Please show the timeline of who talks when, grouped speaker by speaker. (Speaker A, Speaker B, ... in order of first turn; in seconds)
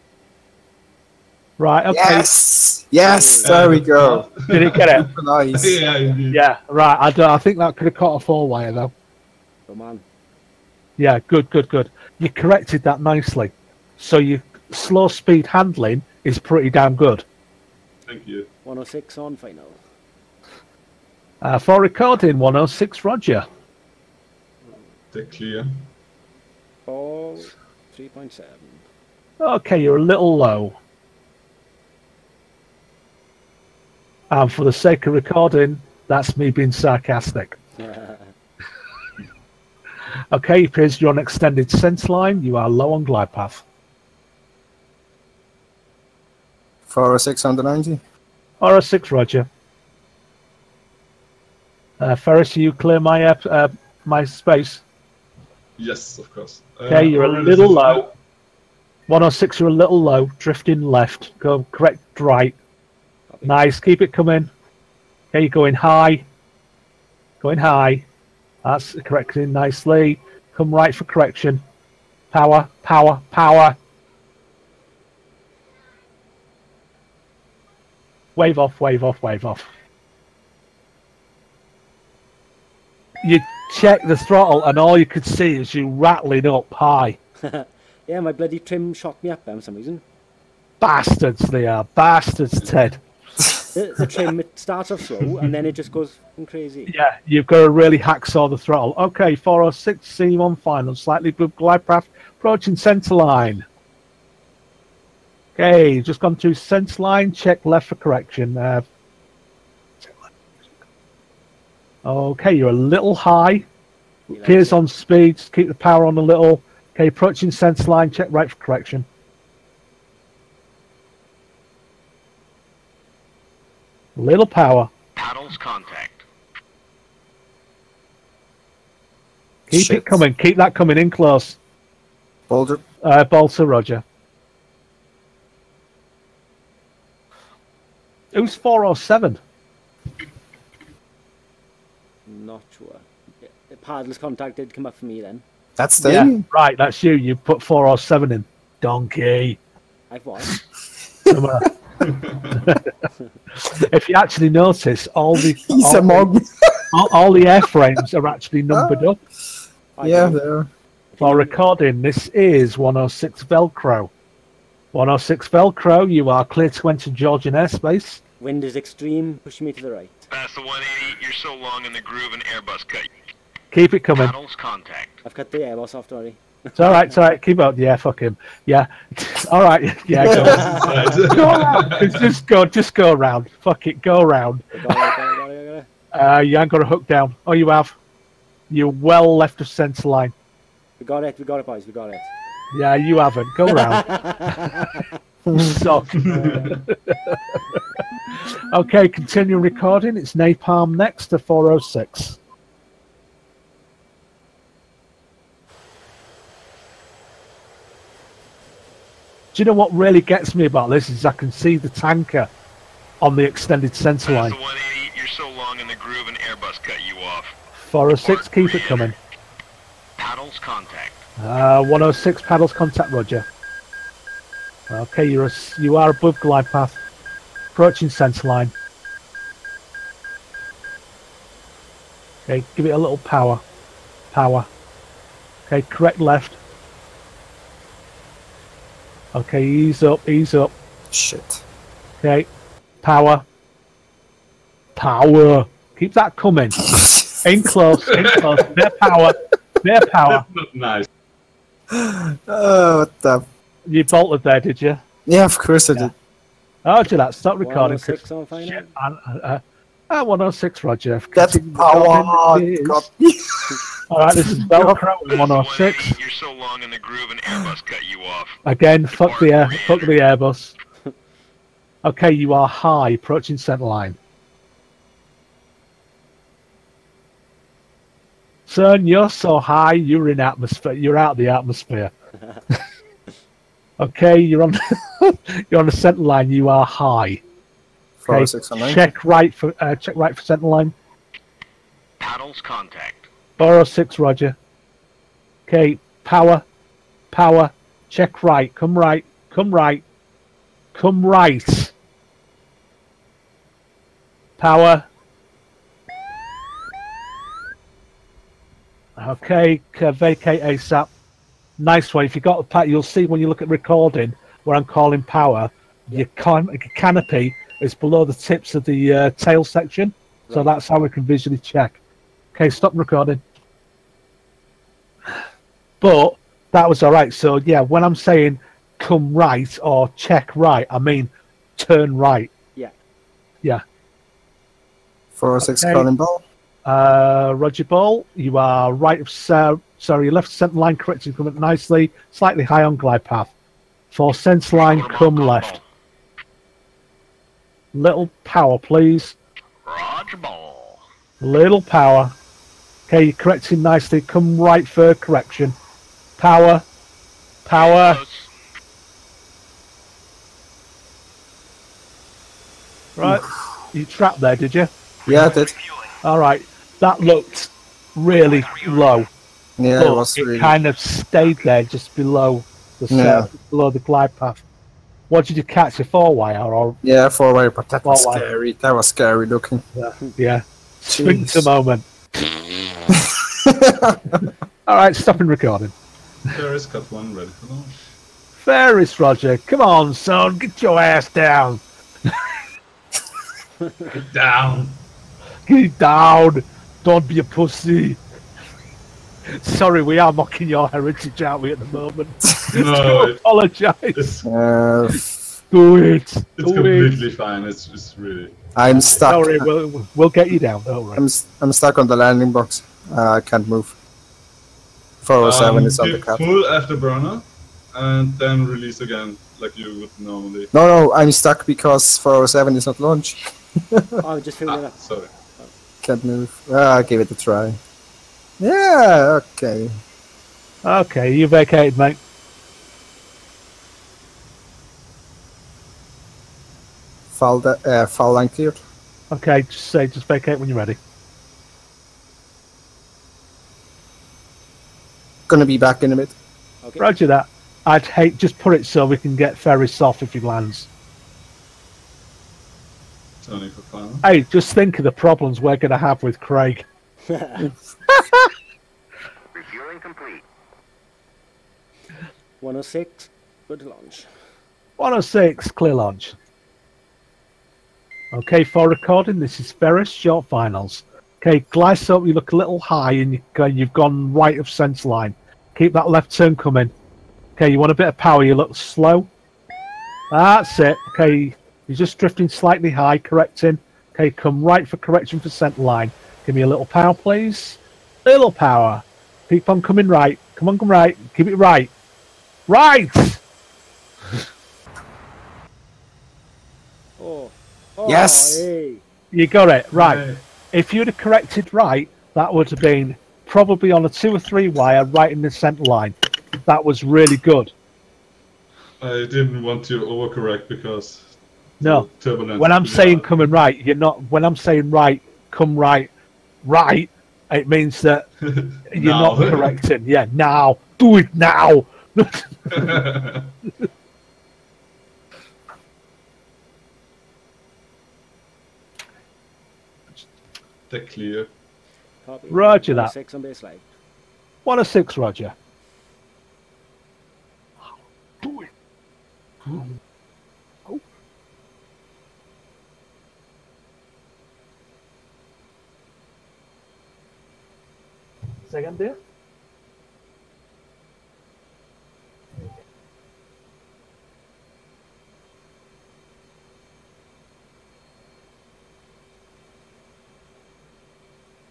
Speaker A: 1.6-2.3, 4.5-5.1, 6.3-8.9, 11.0-17.2, 21.4-23.4, 29.4-30.8, 34.3-37.6, 40.3-43.6, 48.6-49.5, 52.0-54.8, 56.9-58.1, 59.1-62.5, 63.4-64.5, 65.3-66.2, 67.4-68.0, 68.6-71.6, 72.3-73.8, 78.3-79.7, 83.2-87.2, 90.8-93.0, 96.9-103.6, 105.5-108.8, 110.0-110.7, 112.0-113.7, 114.4-119.0, 124.2-124.9, 129.7-131.6, 133.0-134.0, 138.3-139.4, 146.0-149.6, 151.3-151.7, 152.6-152.9, 153.6-156.3, 156.9-159.2, 161.2-164.1, 164.9-168.2, 173.7-174.3, 176.7-184.8, 186.1-187.9, 188.7-190.3, 192.7-194.8, 195.5-197.8, 198.4-202.4, 209.5-212.5, 213.2-214.6, 217.8-219.1, 221.4-223.4, 224.9-227.0, 227.7-228.7, 232.5-233.6, 234.3-234.7, 235.7-236.6, 239.3-240.7, 242.2-242.5, 243.0-243.4, 244.9-246.9, 247.4-250.4, 253.9-255.0, 256.8-263.0, 264.1-266.2, 268.6-270.7, 272.0-274.2, 278.7-282.1, 284.0-287.4, 288.3-290.9, 293.6-294.6, 295.7-296.6, 297.3-300.0, 300.9-301.9, 304.6-305.1, 309.2-311.1, 311.8-322.0, 322.5-323.4, 326.0-332.5, 335.6-336.1, 336.9-343.5, 344.1-345.8, 347.9-349.4, 351.4-352.3, 353.1-355.7, 356.4-356.8, 357.6-358.2, 363.1-364.9, 366.2-369.3, 370.0-374.6, 375.3-377.0, 378.0-378.4, 379.9-382.1, 384.9-385.9, 388.6-392.5, 395.7-398.2, 399.5-404.2, 405.7-407.1, 409.2-411.2, 430.8-432.2, 439.3-441.0, 447.0-450.9, 454.2-456.8, 465.0-466.3, 468.3-476.9, 477.6-479.3, 480.3-491.9, 492.7-493.4, 499.3-506.1, 506.6-507.7, 511.8-516.1, 516.6-518.3, 518.9-523.0, 532.5-533.1, 534.6-535.5, 538.4-538.7, 548.7-549.2
Speaker B: 1.9-5.8, 46.9-48.0, 129.7-130.2, 132.5-132.8, 145.8-146.4, 155.7-156.8, 158.7-159.0, 160.0-160.7, 241.1-241.6, 246.9-247.3, 251.9-253.4, 255.3-256.1, 261.3-263.8, 264.4-265.0, 288.2-289.0, 335.4-336.4, 365.3-365.7, 369.8-370.7, 373.1-373.5, 377.0-379.8, 381.1-381.7, 383.1-384.4, 404.4-405.3, 408.8-409.7, 411.1-413.9, 415.2-416.4, 420.7-424.2, 426.0-427.8, 428.6-429.9, 437.3-438.8, 445.5-446.3, 498.0-498.7
Speaker C: 3.0-3.8, 9.7-10.0, 18.6-19.8, 26.9-28.9, 37.8-38.3, 63.3-63.5, 87.4-90.0, 93.7-96.9, 114.3-114.8, 142.2-145.4, 150.1-150.6, 160.0-160.4, 161.1-161.6, 168.4-170.3, 175.2-177.1, 180.2-181.2, 184.8-185.9, 191.0-192.3, 193.7-195.0, 196.2-196.7, 257.6-258.9, 424.2-425.0, 446.8-447.1, 457.3-457.6, 462.6-464.3, 497.2-499.0, 532.2-533.9
Speaker D: 3.4-6.4, 18.1-18.5, 25.1-25.7, 55.8-58.1, 152.0-152.6, 180.2-182.3, 196.1-196.8, 248.1-248.7, 250.2-251.1, 386.5-388.0, 394.1-394.9, 402.7-403.4, 404.1-404.5, 406.6-408.5, 415.4-420.7, 424.7-425.3, 453.4-454.2, 499.9-500.4, 509.0-513.3, 518.4-519.8, 522.7-523.5, 530.9-531.5
Speaker E: 125.2-126.2, 170.3-173.1, 174.2-175.2, 214.2-217.5, 218.2-219.1, 220.2-221.2, 265.3-268.6, 269.2-270.2, 292.2-293.3, 344.7-345.8, 349.8-351.0, 357.7-358.5, 459.6-460.4